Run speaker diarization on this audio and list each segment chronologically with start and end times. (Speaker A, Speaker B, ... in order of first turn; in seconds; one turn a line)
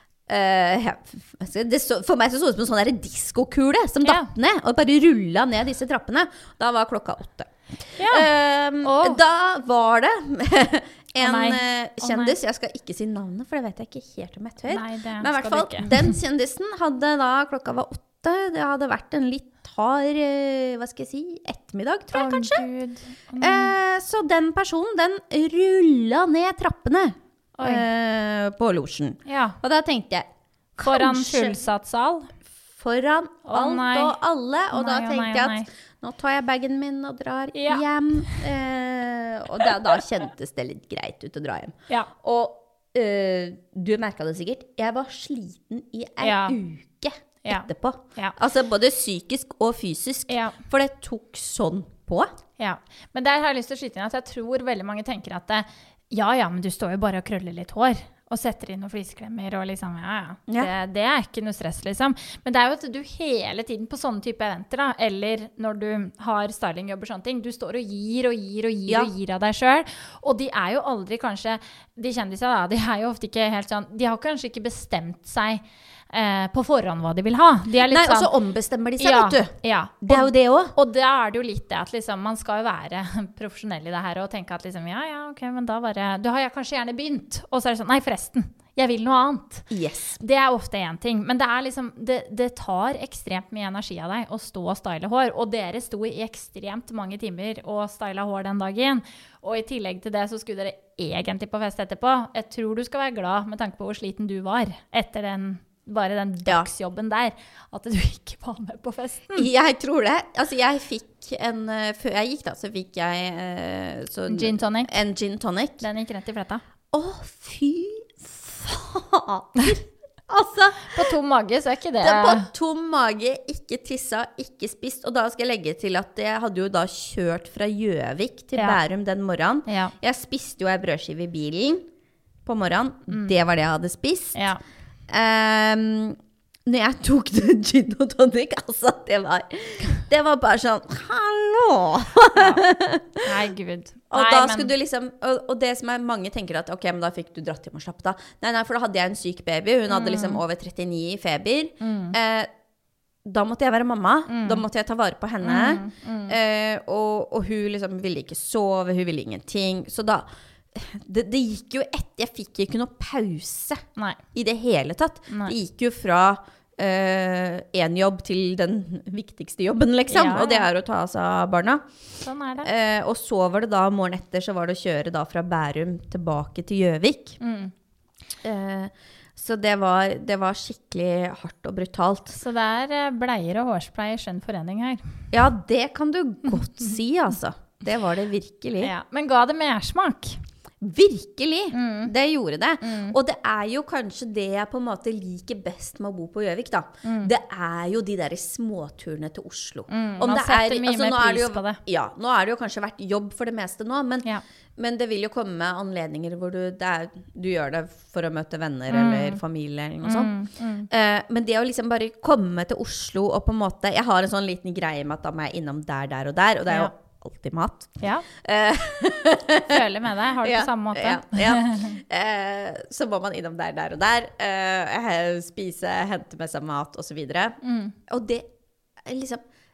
Speaker A: 0.3-22.6
Speaker B: 4.0-4.3
Speaker B: 8.0-8.3
Speaker B: 8.8-9.2
Speaker B: 11.2-12.4
Speaker B: 14.7-16.1
Speaker B: 22.1-23.7
Speaker A: 23.4-31.6
Speaker B: 27.6-27.9
Speaker B: 29.3-29.6
Speaker B: 30.9-32.3
Speaker A: 32.7-52.3
Speaker B: 33.5-34.1
Speaker B: 34.7-35.7
Speaker B: 37.5-38.4
Speaker B: 39.6-40.0
Speaker B: 46.2-46.6
Speaker B: 47.5-48.4
Speaker B: 50.3-50.5
Speaker B: 52.6-78.3
Speaker A: 77.9-80.7
Speaker B: 79.0-109.5
Speaker A: 89.7-90.2
Speaker A: 109.3-115.8
Speaker B: 114.3-114.9
Speaker B: 115.8-116.6
Speaker A: 116.9-121.1
Speaker B: 120.9-122.5
Speaker A: 122.0-131.9
Speaker B: 128.6-128.8
Speaker B: 129.7-129.9
Speaker A: 132.4-134.4
Speaker B: 134.3-134.6
Speaker A: 135.1-143.2
Speaker B: 142.4-142.6
Speaker B: 143.2-144.7
Speaker A: 144.1-152.5
Speaker B: 149.9-150.4
Speaker B: 151.8-152.2
Speaker A: 153.2-171.9
Speaker B: 154.3-154.6
Speaker B: 155.4-156.3
Speaker B: 165.3-165.6
Speaker B: 170.1-170.7
Speaker B: 172.2-172.7
Speaker A: 172.6-177.4
Speaker B: 177.4-177.7
Speaker A: 178.4-182.4
Speaker B: 182.4-185.0
Speaker A: 185.3-188.9
Speaker B: 188.8-190.4
Speaker A: 190.8-210.3
Speaker B: 191.7-192.1
Speaker B: 192.8-193.2
Speaker B: 197.0-197.3
Speaker B: 199.9-201.8
Speaker B: 208.9-209.4
Speaker B: 210.0-210.9
Speaker A: 210.9-219.8
Speaker B: 218.0-218.3
Speaker B: 219.7-222.0
Speaker A: 220.4-228.5
Speaker B: 227.6-227.9
Speaker A: 229.1-229.4